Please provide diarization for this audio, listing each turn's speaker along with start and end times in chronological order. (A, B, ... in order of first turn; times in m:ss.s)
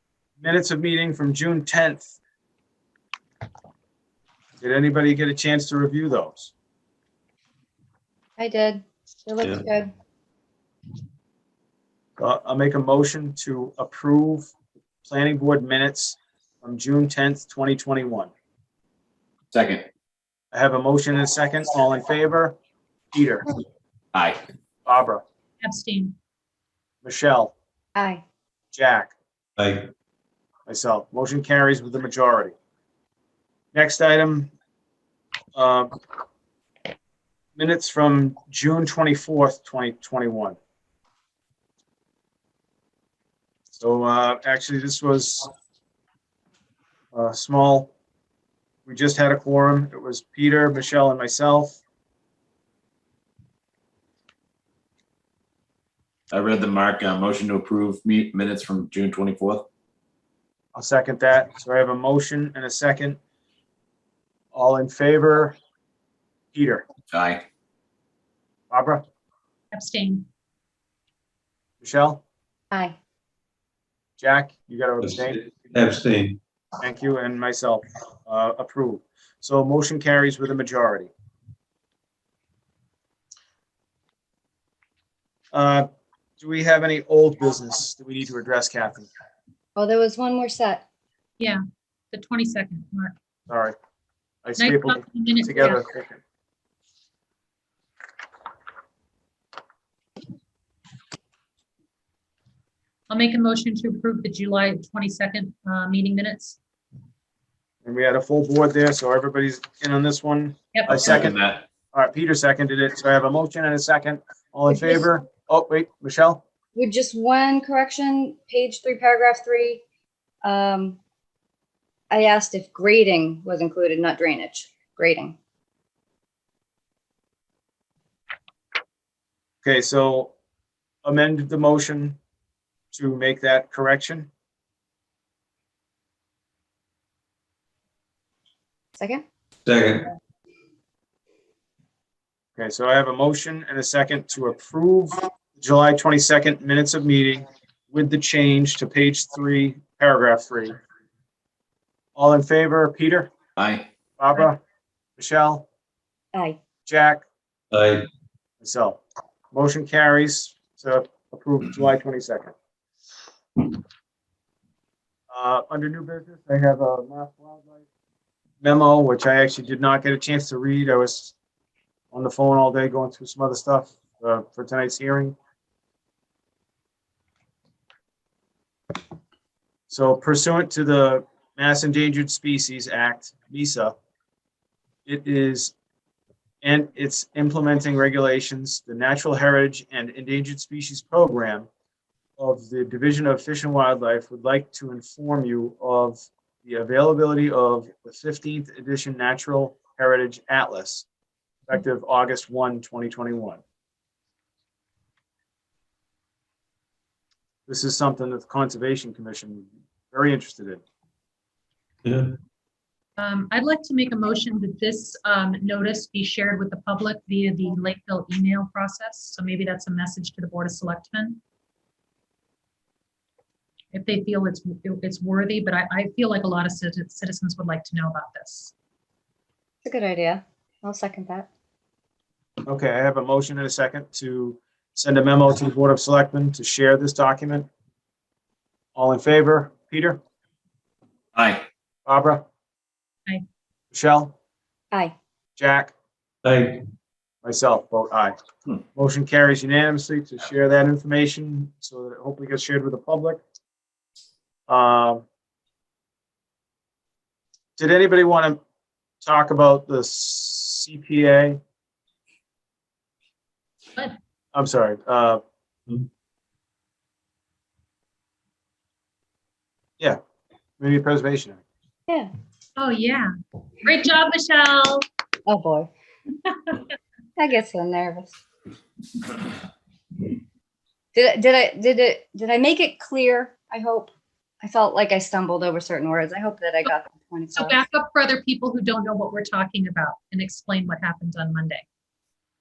0:00.4-0:02.2 A
0:04.6-0:06.5 A
0:08.4-0:09.9 B
0:12.2-0:14.5 A
0:15.0-0:18.3 A
0:19.5-0:19.9 C
0:20.5-0:22.6 A
0:23.1-0:23.5 A
0:24.1-0:24.4 C
0:24.8-0:25.2 A
0:25.6-0:26.1 D
0:27.0-0:27.5 A
0:27.9-0:28.2 B
0:28.7-0:29.1 A
0:29.6-0:29.9 E
0:30.6-0:32.5 A
0:33.7-0:34.5 A
0:35.5-0:35.9 A
0:37.6-0:40.6 A
0:43.8-0:45.5 A
0:47.1-0:47.9 A
0:48.8-0:51.8 A
0:56.3-0:59.7 C
1:00.7-1:03.2 A
1:04.5-1:05.6 A
1:06.5-1:06.8 A
1:07.1-1:07.4 C
1:08.7-1:09.0 A
1:09.7-1:10.3 D
1:11.8-1:12.2 A
1:14.2-1:15.4 A
1:15.0-1:16.4 E
1:16.8-1:21.1 A
1:25.5-1:25.9 A
1:26.4-1:29.1 A
1:29.8-1:30.8 B
1:32.1-1:33.1 D
1:33.5-1:33.8 A
1:34.4-1:36.2 A
1:34.6-1:35.8 D
1:43.1-1:46.6 D
1:47.8-1:51.4 A
1:50.7-1:51.0 D
1:50.9-1:51.6 C
1:51.9-1:56.4 A
1:54.7-1:55.0 B
1:56.7-1:59.8 B
2:00.4-2:01.0 B
2:02.1-2:05.4 B
2:09.6-2:10.3 A
2:11.0-2:12.2 A
2:12.9-2:14.3 A
2:19.0-2:19.2 B
2:19.6-2:20.1 E
2:22.6-2:30.8 A
2:32.1-2:33.3 A
2:33.6-2:33.9 C
2:34.2-2:34.6 A
2:35.2-2:35.6 A
2:36.3-2:36.6 B
2:36.8-2:37.2 A
2:37.7-2:38.1 E
2:38.6-2:39.0 A
2:39.5-2:42.5 A
2:45.3-2:47.8 A
2:48.6-2:51.3 A
2:52.1-2:55.4 A
2:59.9-3:04.0 A
3:05.0-3:05.7 A
3:06.6-3:11.7 A
3:12.4-3:21.0 A
3:21.7-3:23.6 A
3:27.7-3:30.8 A
3:32.0-3:32.4 E
3:33.2-3:41.4 D
3:43.9-3:48.7 D
3:49.8-3:51.5 B
3:52.6-3:57.7 A
3:58.9-4:00.2 A
4:01.3-4:01.6 C
4:02.0-4:02.4 A
4:03.9-4:04.3 A
4:05.6-4:05.9 A
4:06.4-4:06.8 E
4:07.4-4:08.4 A
4:08.9-4:13.4 A
4:14.7-4:15.2 A
4:17.8-4:18.6 A
4:19.2-4:21.6 A
4:24.5-4:25.4 A
4:30.8-4:31.6 A
4:32.8-4:35.0 D
4:35.4-4:35.9 B
4:37.4-4:38.3 B
4:41.1-4:44.1 B
4:44.6-4:47.8 B
4:47.6-4:51.8 D